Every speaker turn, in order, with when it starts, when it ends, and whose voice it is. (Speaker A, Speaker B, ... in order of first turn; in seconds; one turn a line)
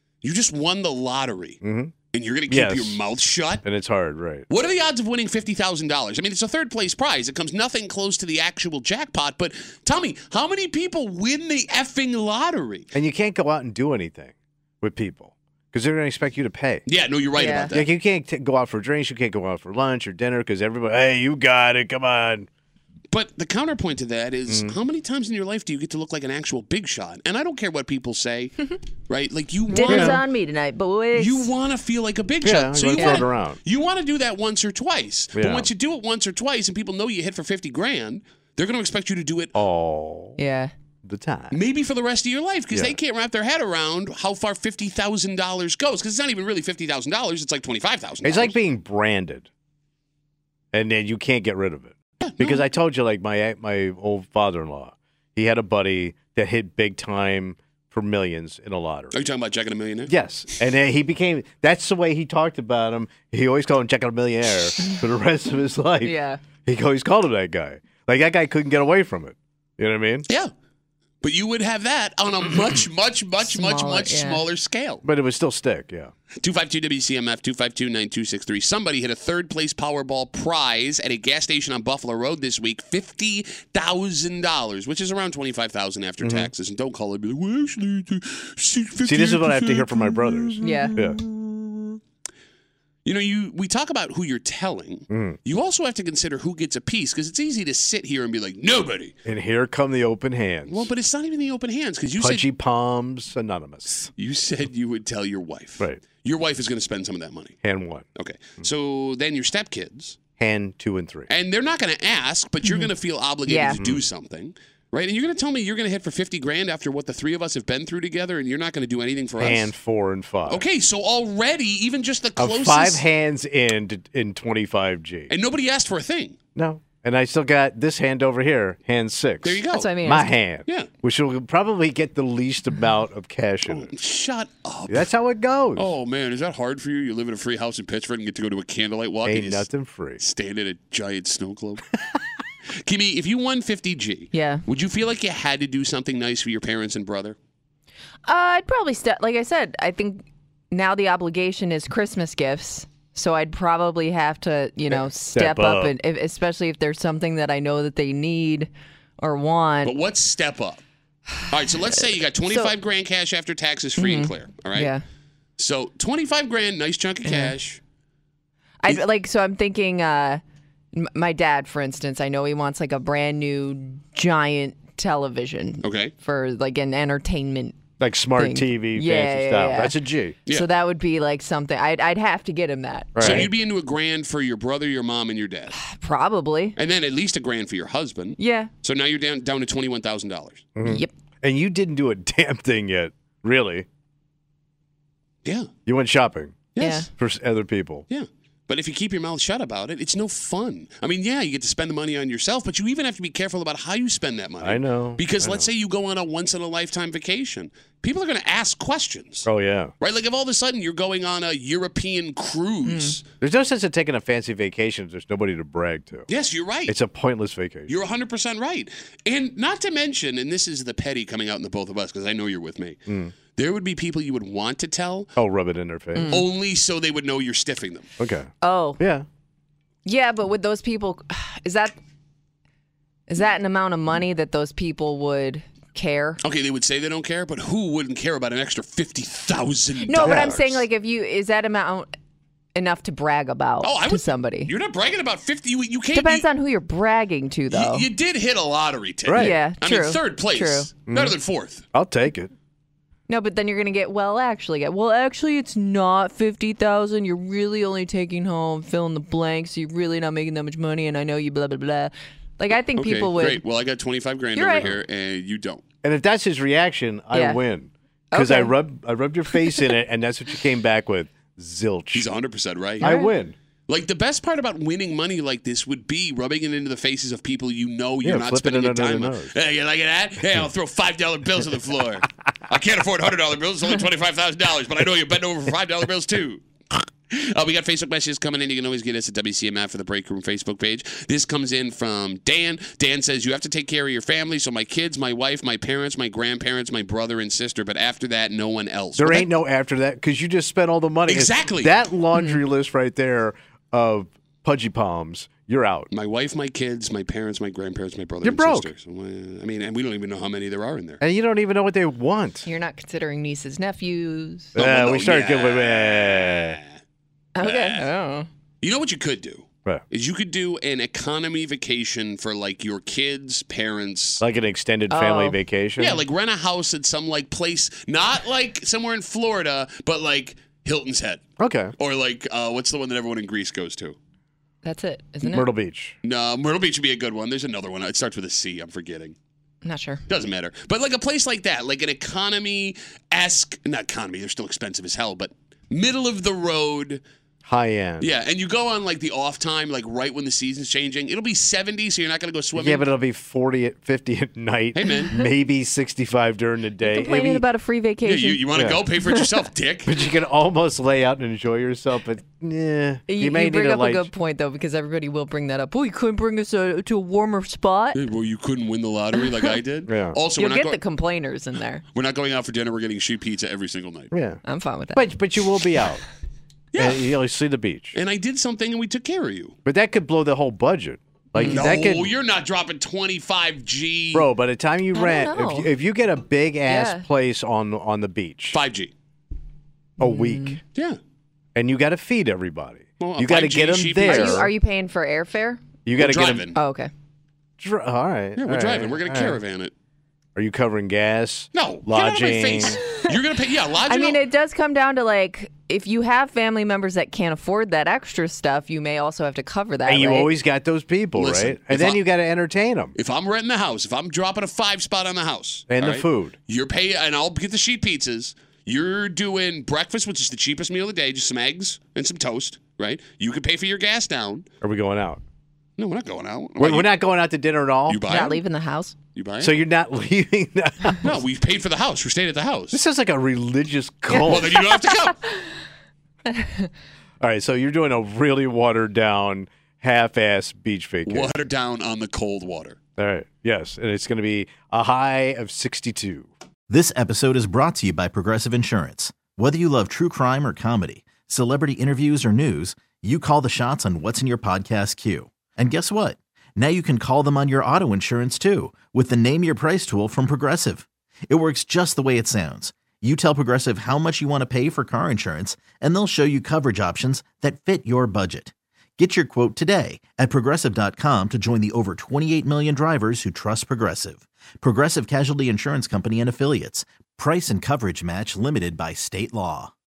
Speaker A: 0.2-1.6
Speaker B: 1.6-1.9
Speaker A: 2.1-3.6
Speaker B: 2.5-3.0
Speaker B: 3.6-4.5
Speaker A: 4.5-12.9
Speaker B: 12.9-16.9
Speaker A: 16.9-17.9
Speaker C: 17.3-17.7
Speaker B: 17.7-22.5
Speaker A: 23.1-30.2
Speaker B: 24.5-24.8
Speaker C: 29.7-31.5
Speaker B: 29.8-30.2
Speaker A: 31.1-39.5
Speaker B: 32.4-33.6
Speaker C: 33.0-33.2
Speaker B: 35.3-35.7
Speaker B: 39.5-40.4
Speaker C: 40.4-40.7
Speaker B: 41.0-41.6
Speaker A: 41.5-48.6
Speaker B: 42.7-43.0
Speaker B: 48.2-49.5
Speaker B: 50.7-59.2
Speaker A: 52.2-52.6
Speaker A: 59.1-60.1
Speaker B: 60.1-70.2
Speaker C: 66.0-66.4
Speaker A: 71.2-75.0
Speaker C: 73.4-74.5
Speaker B: 75.0-76.1
Speaker A: 76.4-92.0
Speaker B: 86.2-86.5
Speaker B: 89.0-91.2
Speaker C: 90.6-90.9
Speaker A: 93.0-99.1
Speaker B: 95.1-95.4
Speaker B: 99.2-100.9
Speaker A: 100.7-102.5
Speaker B: 102.2-104.1
Speaker A: 104.1-107.6
Speaker B: 107.6-108.0
Speaker A: 108.1-110.2
Speaker B: 110.4-111.3
Speaker A: 111.3-119.7
Speaker C: 112.6-112.9
Speaker C: 113.5-113.8
Speaker B: 113.8-114.1
Speaker B: 119.4-120.6
Speaker A: 120.5-123.0
Speaker B: 122.3-125.3
Speaker A: 125.3-126.4
Speaker B: 126.5-133.9
Speaker A: 129.4-130.0
Speaker C: 129.7-130.3
Speaker A: 133.7-135.1
Speaker B: 134.9-135.9
Speaker A: 135.7-142.2
Speaker B: 139.2-140.2
Speaker A: 142.7-147.4
Speaker C: 144.3-144.6
Speaker C: 148.2-159.9
Speaker B: 154.9-155.9
Speaker A: 159.8-160.8
Speaker A: 161.5-164.9
Speaker C: 162.4-162.7
Speaker C: 164.0-165.0
Speaker A: 165.6-167.8
Speaker C: 167.2-167.5
Speaker C: 168.8-170.4
Speaker C: 170.9-177.8
Speaker A: 175.8-176.1
Speaker B: 178.0-180.3
Speaker C: 178.3-183.5
Speaker B: 183.1-183.5
Speaker A: 183.2-185.8
Speaker C: 185.7-186.8
Speaker A: 186.8-190.6
Speaker C: 188.4-188.7
Speaker B: 190.8-193.8
Speaker C: 190.8-191.1
Speaker B: 195.8-198.1
Speaker A: 196.7-197.1
Speaker C: 196.8-197.1
Speaker A: 198.1-209.5
Speaker B: 204.6-205.7
Speaker B: 209.4-209.9
Speaker A: 210.0-213.2
Speaker C: 212.8-213.2
Speaker B: 213.4-216.3
Speaker A: 216.3-216.9
Speaker B: 216.8-217.9
Speaker A: 217.9-223.0
Speaker B: 223.1-223.3
Speaker A: 223.5-225.3
Speaker B: 225.4-226.4
Speaker C: 226.1-226.5
Speaker A: 226.3-228.1
Speaker B: 228.2-229.2
Speaker C: 228.6-229.0
Speaker C: 230.0-231.9
Speaker C: 233.3-236.4
Speaker A: 236.4-240.8
Speaker C: 240.1-242.1
Speaker B: 240.2-240.6
Speaker C: 242.7-244.7
Speaker A: 243.8-246.5
Speaker C: 246.1-248.1
Speaker A: 247.7-251.8
Speaker B: 249.2-249.6
Speaker C: 249.3-250.9
Speaker B: 251.1-251.4
Speaker B: 251.9-252.5
Speaker C: 253.3-263.6
Speaker A: 262.9-265.8
Speaker C: 264.5-264.9
Speaker B: 266.0-272.3
Speaker C: 267.3-267.6
Speaker C: 268.3-268.8
Speaker C: 269.6-269.9
Speaker A: 272.1-273.2
Speaker B: 273.0-273.5
Speaker C: 273.0-273.3
Speaker A: 273.9-286.6
Speaker B: 278.2-279.5
Speaker A: 287.3-299.5
Speaker B: 299.1-306.1
Speaker A: 301.3-301.9
Speaker C: 302.3-302.6
Speaker A: 306.1-311.2
Speaker B: 308.4-308.9
Speaker B: 311.2-312.7
Speaker C: 312.6-314.7
Speaker B: 314.7-316.8
Speaker A: 314.8-316.9
Speaker C: 317.6-318.5
Speaker A: 317.6-318.1
Speaker A: 318.8-324.4
Speaker B: 324.4-326.2
Speaker C: 325.1-325.6
Speaker A: 326.0-334.2
Speaker B: 331.6-331.9
Speaker C: 334.8-335.7
Speaker B: 335.4-336.1
Speaker A: 336.2-339.4
Speaker C: 339.8-340.2
Speaker A: 340.3-347.2
Speaker B: 347.6-348.3
Speaker A: 348.2-353.1
Speaker B: 352.7-357.6
Speaker A: 354.9-355.3
Speaker C: 355.1-355.4
Speaker C: 357.0-358.6
Speaker A: 358.2-360.1
Speaker B: 358.7-359.0
Speaker B: 360.0-364.3
Speaker C: 363.3-368.2
Speaker A: 368.1-371.0
Speaker B: 370.1-370.4
Speaker C: 370.6-372.0
Speaker A: 372.1-374.3
Speaker B: 374.3-376.2
Speaker C: 374.6-375.3
Speaker A: 376.9-377.3
Speaker B: 377.0-378.2
Speaker A: 378.1-379.8
Speaker B: 379.8-382.3
Speaker C: 381.6-381.9
Speaker A: 381.6-384.5
Speaker B: 384.3-388.8
Speaker C: 385.1-385.9
Speaker C: 386.9-387.2
Speaker A: 388.7-389.1
Speaker C: 390.2-390.8
Speaker B: 390.2-390.8
Speaker B: 391.7-394.7
Speaker A: 393.2-394.7
Speaker C: 394.2-395.8
Speaker B: 396.1-396.7
Speaker A: 396.2-396.8
Speaker C: 396.7-397.1
Speaker B: 397.8-399.6
Speaker A: 398.6-399.9
Speaker B: 400.5-403.0
Speaker A: 401.7-404.4
Speaker C: 404.1-410.5
Speaker B: 410.0-413.1
Speaker A: 411.3-412.2
Speaker A: 413.1-424.6
Speaker B: 415.9-416.5
Speaker B: 424.8-425.4
Speaker A: 426.0-427.1
Speaker B: 426.8-428.2
Speaker A: 428.1-428.6
Speaker C: 428.3-429.1
Speaker A: 429.3-429.8
Speaker B: 429.6-431.4
Speaker A: 431.2-433.0
Speaker B: 432.9-434.8
Speaker A: 434.4-435.4
Speaker B: 437.4-441.5
Speaker A: 441.2-443.0
Speaker B: 443.2-446.5
Speaker D: 446.9-479.9